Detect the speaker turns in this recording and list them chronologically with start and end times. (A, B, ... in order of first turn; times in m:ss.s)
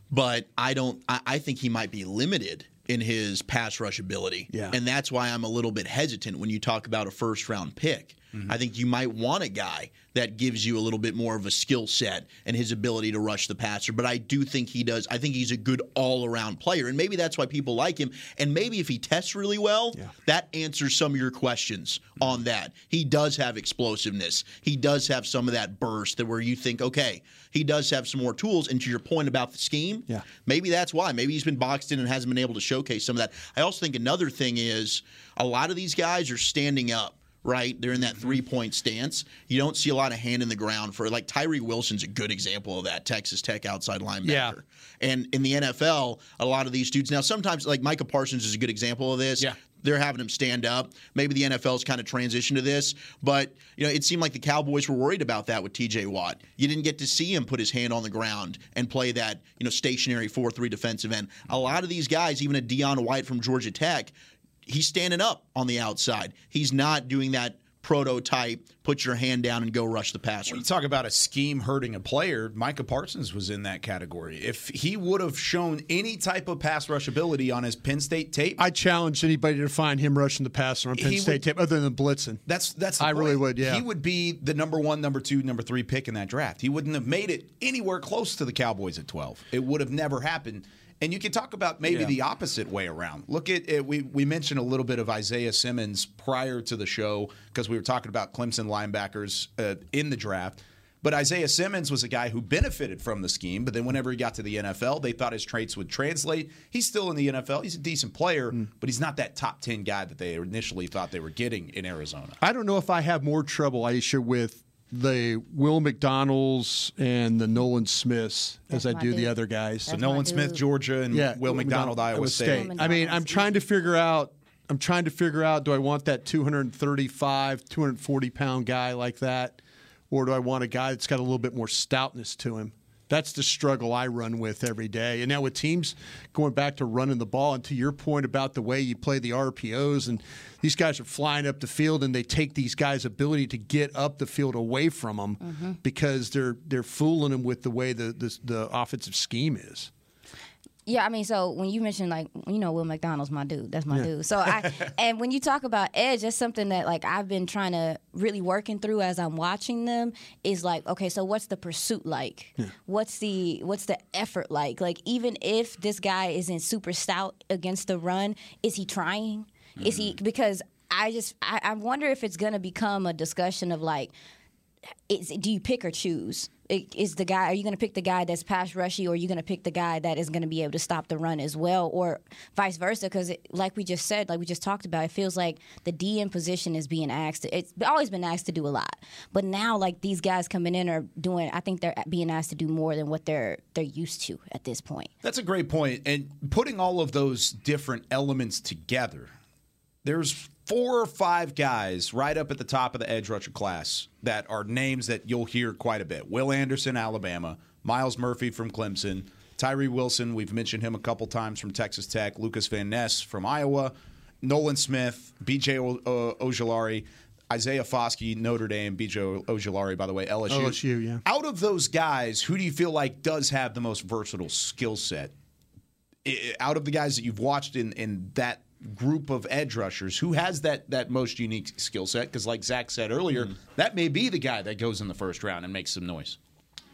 0:00.1-1:04.1 A
0:04.5-0:04.8 B
0:44.2-0:44.6 B
1:04.6-1:10.6 A
1:10.5-1:18.6 C
1:18.6-1:22.4 B
1:21.0-1:21.4 C
1:22.4-1:52.4 C
1:23.0-1:23.8 B
1:31.8-1:32.1 B
1:52.4-1:59.9 B
1:58.7-1:59.3 D
1:59.8-2:00.6 D
1:59.9-2:02.8 C
2:01.1-2:09.6 B
2:02.4-2:03.6 D
2:10.1-2:29.9 B
2:25.4-2:25.8 D
2:30.8-2:54.1 D
2:49.8-2:50.1 C
2:55.1-3:15.1 D
3:15.2-3:19.3 C
3:20.0-3:45.3 C
3:40.5-3:41.2 B
3:46.2-3:56.4 C